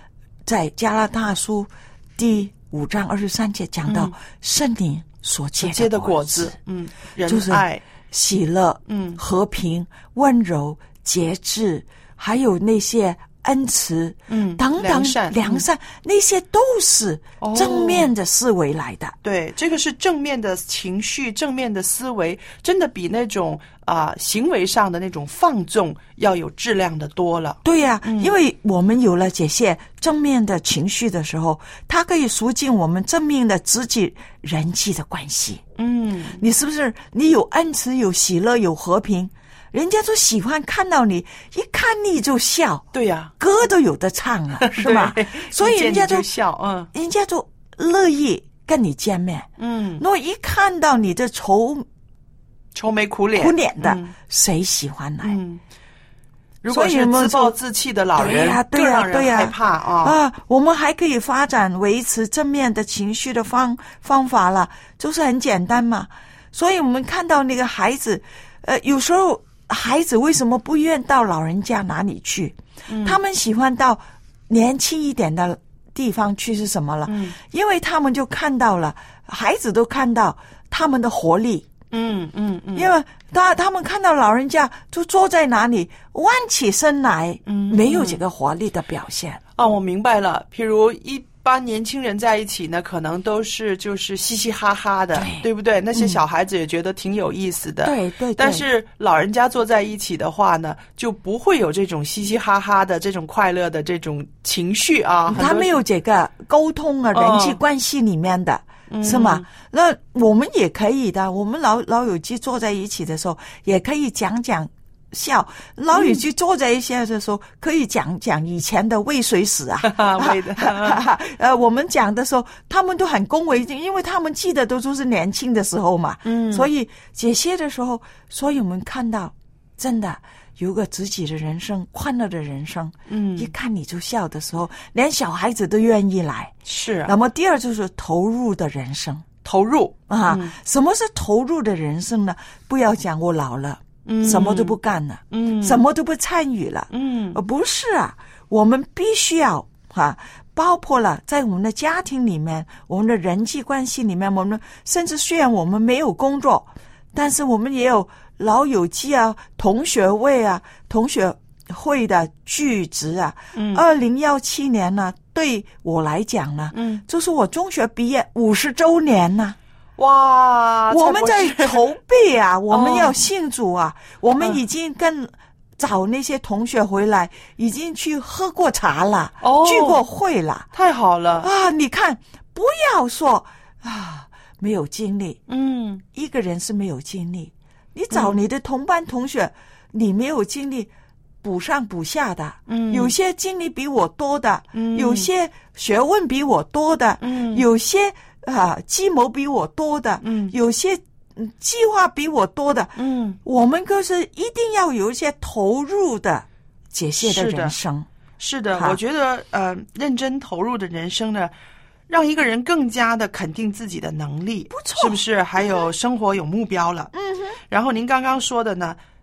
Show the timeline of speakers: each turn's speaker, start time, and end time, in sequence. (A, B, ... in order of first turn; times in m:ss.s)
0:00.5-0:06.6 A
0:03.9-0:04.1 B
0:05.6-0:07.8 B
0:07.2-0:19.2 A
0:08.9-0:09.2 B
0:14.3-0:15.6 B
0:17.4-0:18.1 B
0:19.2-0:28.4 B
0:27.6-0:35.6 A
0:35.8-0:36.4 B
0:36.4-0:42.9 A
0:42.9-0:43.3 B
0:43.4-0:46.3 A
0:44.6-0:46.9 B
0:46.9-0:51.9 A
0:49.6-0:50.0 B
0:52.8-0:54.1 B
0:53.4-0:55.4 A
0:55.2-0:55.6 B
0:56.6-1:00.2 B
0:56.7-0:57.6 A
0:58.2-1:21.7 A
1:12.9-1:13.2 B
1:17.1-1:17.4 B
1:21.9-1:22.9 B
1:22.8-1:29.4 A
1:27.5-1:28.2 B
1:29.6-1:45.7 B
1:35.1-1:36.2 A
1:37.8-1:38.6 A
1:45.3-2:19.3 A
1:47.1-1:47.6 B
1:48.9-1:49.5 B
1:55.9-1:56.2 B
1:59.9-2:01.0 B
2:06.2-2:06.7 B
2:13.1-2:13.5 B
2:16.7-2:17.1 B
2:19.4-2:20.5 B
2:20.1-2:49.6 A
2:24.0-2:24.8 B
2:25.3-2:25.8 B
2:26.9-2:27.4 B
2:43.6-2:43.8 B
2:46.7-2:47.0 B
2:50.0-2:51.8 B
2:50.9-3:00.7 A
2:52.7-2:53.2 B
2:59.4-3:00.0 B
3:00.7-3:01.5 B
3:01.4-3:05.4 A
3:05.5-3:06.0 B
3:06.1-3:10.9 A
3:08.1-3:08.4 B
3:11.4-3:28.1 A
3:12.7-3:13.1 B
3:14.8-3:15.3 B
3:17.2-3:17.6 B
3:20.2-3:20.5 B
3:23.0-3:23.4 B
3:27.2-3:27.7 B
3:28.4-3:31.5 B
3:28.7-3:29.0 A
3:32.1-3:37.1 B
3:34.7-3:35.9 A
3:37.1-3:37.6 A
3:37.7-3:39.0 B